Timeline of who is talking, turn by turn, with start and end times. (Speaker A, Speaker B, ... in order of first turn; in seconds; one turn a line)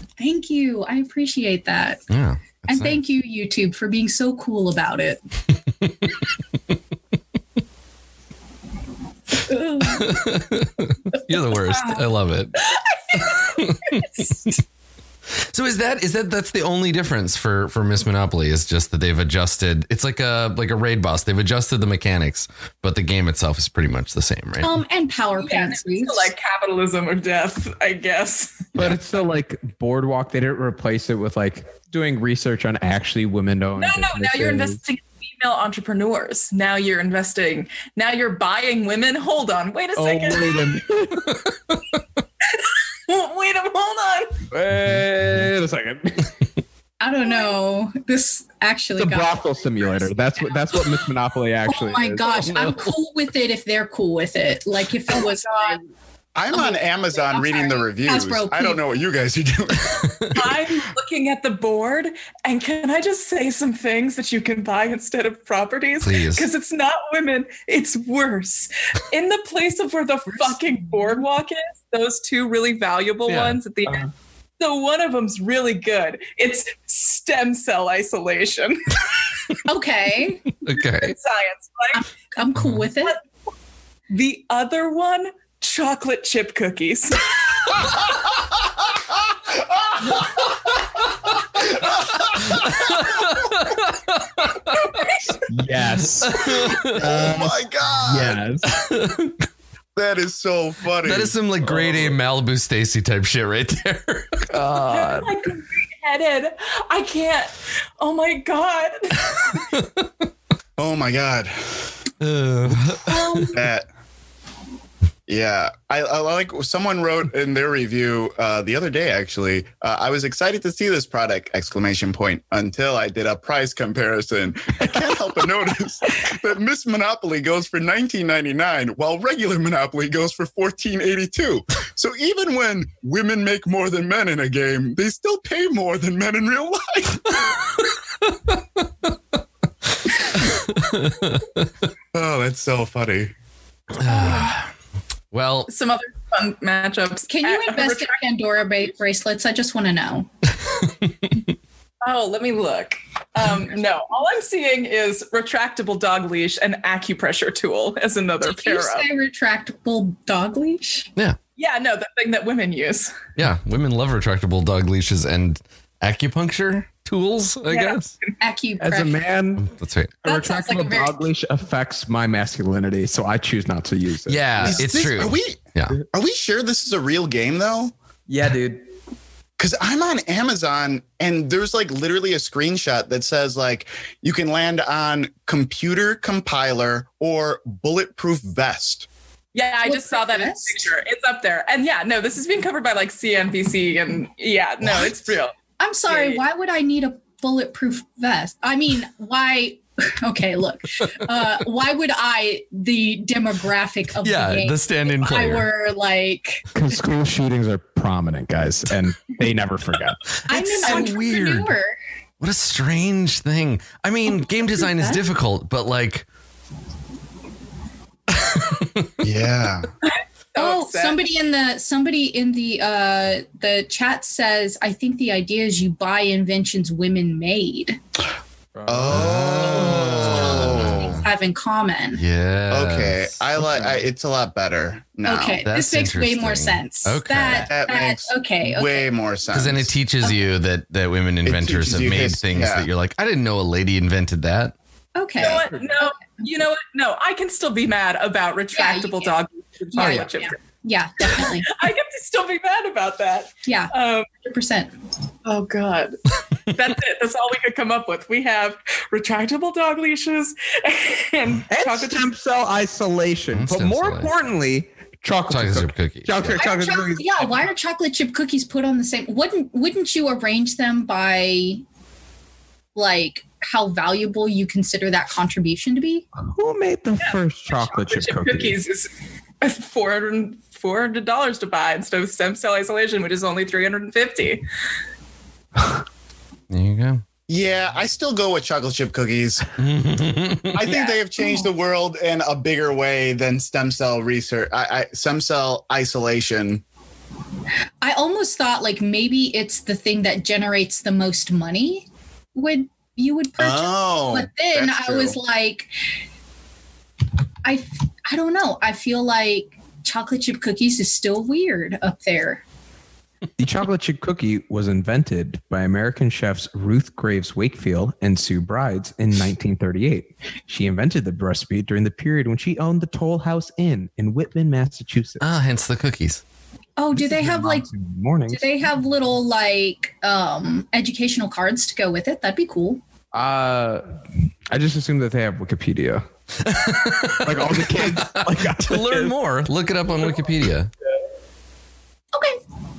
Speaker A: 0.2-2.0
Speaker B: 2.1-3.0
Speaker A: 2.7-5.2
Speaker B: 5.8-6.2
Speaker A: 9.5-10.2
Speaker B: 9.8-12.5
Speaker A: 11.7-12.0
Speaker C: 13.1-13.6
Speaker B: 13.2-14.6
Speaker B: 15.5-24.8
Speaker A: 24.6-26.3
Speaker C: 25.4-28.9
Speaker D: 28.8-34.8
Speaker C: 33.8-40.8
Speaker D: 40.0-41.3
Speaker B: 41.3-41.8
Speaker C: 42.4-44.4
Speaker D: 44.5-46.3
Speaker A: 47.0-50.6
Speaker C: 47.3-47.5
Speaker D: 49.0-52.2
Speaker A: 51.7-55.8
Speaker B: 52.3-52.8
Speaker C: 55.1-55.8
Speaker E: 56.4-60.2
Speaker A: 56.5-58.8
Speaker B: 59.9-60.5
Speaker C: 60.4-74.1
Speaker B: 66.0-66.5
Speaker B: 73.3-73.6
Speaker C: 74.6-79.3
Speaker A: 79.7-80.4
Speaker B: 80.6-81.2
Speaker C: 81.0-82.0
Speaker A: 81.9-83.2
Speaker B: 82.6-82.9
Speaker C: 84.1-88.0
Speaker E: 88.7-90.6
Speaker E: 91.5-93.3
Speaker B: 91.9-95.1
Speaker C: 94.8-95.5
Speaker D: 95.5-98.7
Speaker B: 96.2-97.2
Speaker E: 96.9-98.4
Speaker B: 98.7-99.4
Speaker E: 100.0-101.3
Speaker B: 101.0-105.3
Speaker D: 101.7-102.1
Speaker C: 104.8-109.5
Speaker B: 109.5-110.1
Speaker E: 110.8-111.8
Speaker B: 112.2-113.6
Speaker E: 113.5-113.9
Speaker E: 115.3-137.4
Speaker B: 137.5-138.9
Speaker B: 140.2-141.7
Speaker E: 142.1-143.3
Speaker B: 143.9-144.7
Speaker C: 144.1-144.5
Speaker B: 145.3-145.7
Speaker C: 145.7-148.1
Speaker A: 147.3-150.3
Speaker B: 150.7-151.4
Speaker C: 152.0-159.0
Speaker A: 158.4-161.1
Speaker C: 161.6-163.2
Speaker B: 163.4-168.1
Speaker C: 167.7-168.3
Speaker A: 168.4-169.2
Speaker D: 168.8-169.7
Speaker B: 169.6-170.2
Speaker D: 170.2-174.8
Speaker A: 170.2-171.2
Speaker B: 174.3-176.0
Speaker E: 174.6-177.9
Speaker D: 178.3-178.8
Speaker E: 179.6-189.1
Speaker C: 189.5-195.5
Speaker A: 189.8-190.9
Speaker E: 194.8-195.4
Speaker A: 195.8-206.7
Speaker C: 196.1-196.4
Speaker B: 204.2-205.7
Speaker D: 206.7-210.2
Speaker B: 210.3-211.7
Speaker A: 210.5-211.9
Speaker B: 212.4-216.3
Speaker A: 214.8-215.2
Speaker B: 218.3-219.2
Speaker E: 219.2-219.9
Speaker C: 220.0-221.2
Speaker A: 220.6-228.0
Speaker D: 228.8-230.5
Speaker E: 228.9-231.2
Speaker B: 229.1-231.3
Speaker A: 230.7-232.2
Speaker B: 232.2-233.6
Speaker E: 232.7-235.6
Speaker D: 233.6-234.1
Speaker A: 235.2-239.1
Speaker B: 235.6-237.7
Speaker E: 237.7-239.9
Speaker B: 239.5-244.8
Speaker E: 241.5-242.9
Speaker A: 245.2-246.2
Speaker C: 245.4-250.6
Speaker A: 248.7-249.4
Speaker A: 249.9-251.7
Speaker D: 250.0-250.4
Speaker C: 251.3-254.3
Speaker A: 253.7-254.9
Speaker C: 255.4-262.3
Speaker D: 261.7-267.7
Speaker B: 263.5-264.3
Speaker B: 265.5-266.6
Speaker A: 266.6-271.8
Speaker A: 272.9-276.3
Speaker D: 276.4-278.8
Speaker C: 277.2-279.1
Speaker C: 279.6-284.6
Speaker B: 286.7-287.2
Speaker E: 287.5-289.7
Speaker B: 289.8-291.0
Speaker E: 290.7-296.8
Speaker A: 290.9-291.7
Speaker A: 298.0-305.9
Speaker E: 303.6-305.4
Speaker A: 307.6-312.6
Speaker D: 313.6-325.4
Speaker B: 325.4-326.4
Speaker A: 327.0-327.9
Speaker D: 327.1-328.6
Speaker A: 328.5-333.0
Speaker D: 333.3-334.2
Speaker D: 334.7-336.3
Speaker B: 336.6-340.9
Speaker D: 337.4-339.3
Speaker A: 342.3-342.6